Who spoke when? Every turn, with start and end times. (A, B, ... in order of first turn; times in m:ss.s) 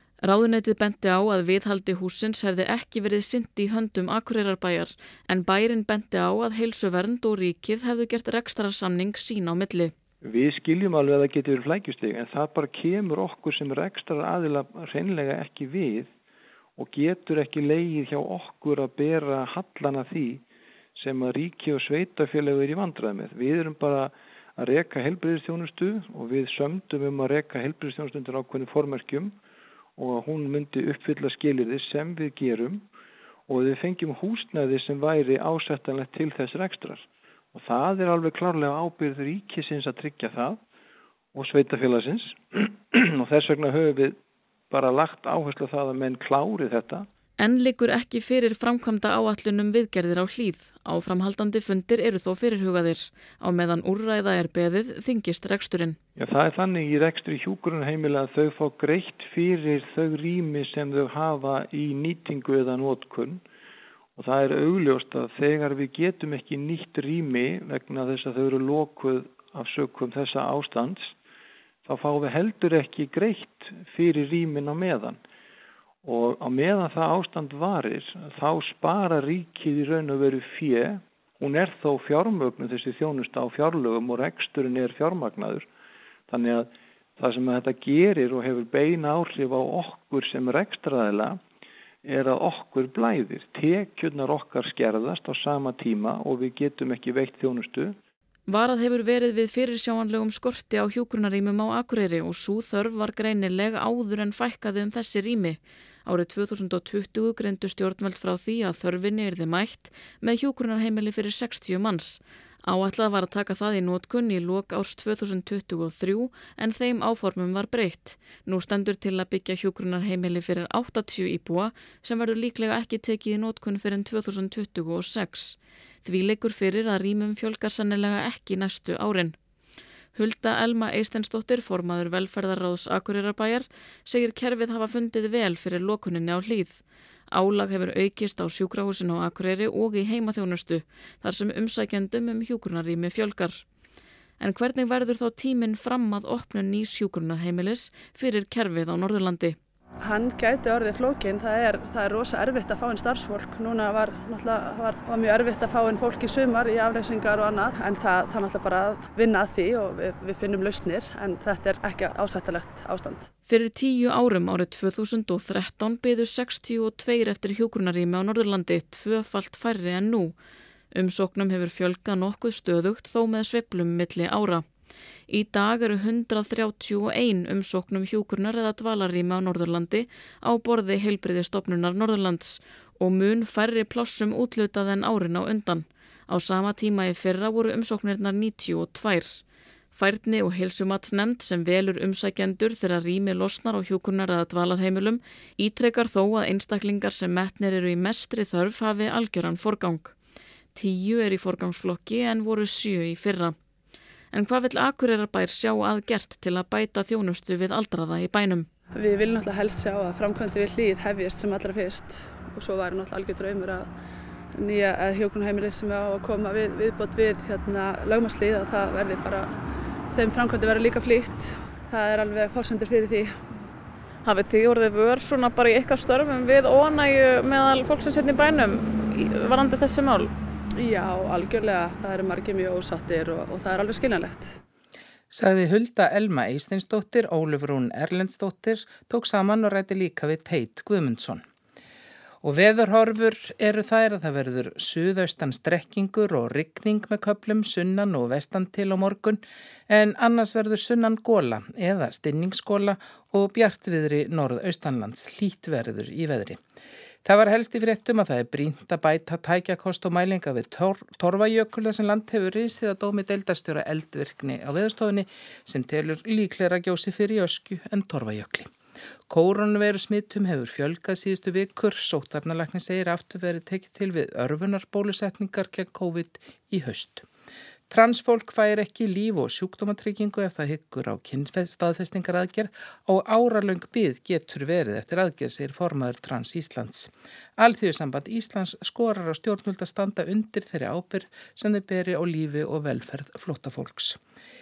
0:00.2-0:09.9 A
0:10.2-0:16.1 B
0:16.8-0:20.4 B
0:21.0-0:29.4 B
0:30.0-0:32.8 B
0:33.5-0:40.6 B
0:41.3-0:44.2 B
0:44.7-0:47.1 B
0:47.4-0:56.0 A
0:56.2-1:03.4 B
1:04.2-1:11.1 B
1:11.8-1:15.2 B
1:16.0-1:25.7 B
1:26.3-1:31.4 B
1:32.0-1:38.0 B
1:38.5-2:09.4 A
2:10.1-2:23.6 A
2:24.4-2:29.6 A
2:30.0-2:43.3 C
2:43.5-2:50.4 A
2:50.9-2:54.6 A
2:55.3-3:09.4 A
3:09.9-3:20.1 A
3:20.7-3:23.5 A
3:24.3-3:28.7 A
3:28.9-3:33.9 C
3:34.6-3:39.5 C
3:40.1-3:43.4 C
3:44.2-3:50.3 A
3:50.8-3:54.6 C
3:55.3-4:01.4 D
4:02.4-4:16.6 D
4:17.2-4:28.7 D
4:29.3-4:37.2 D
4:37.9-4:54.2 D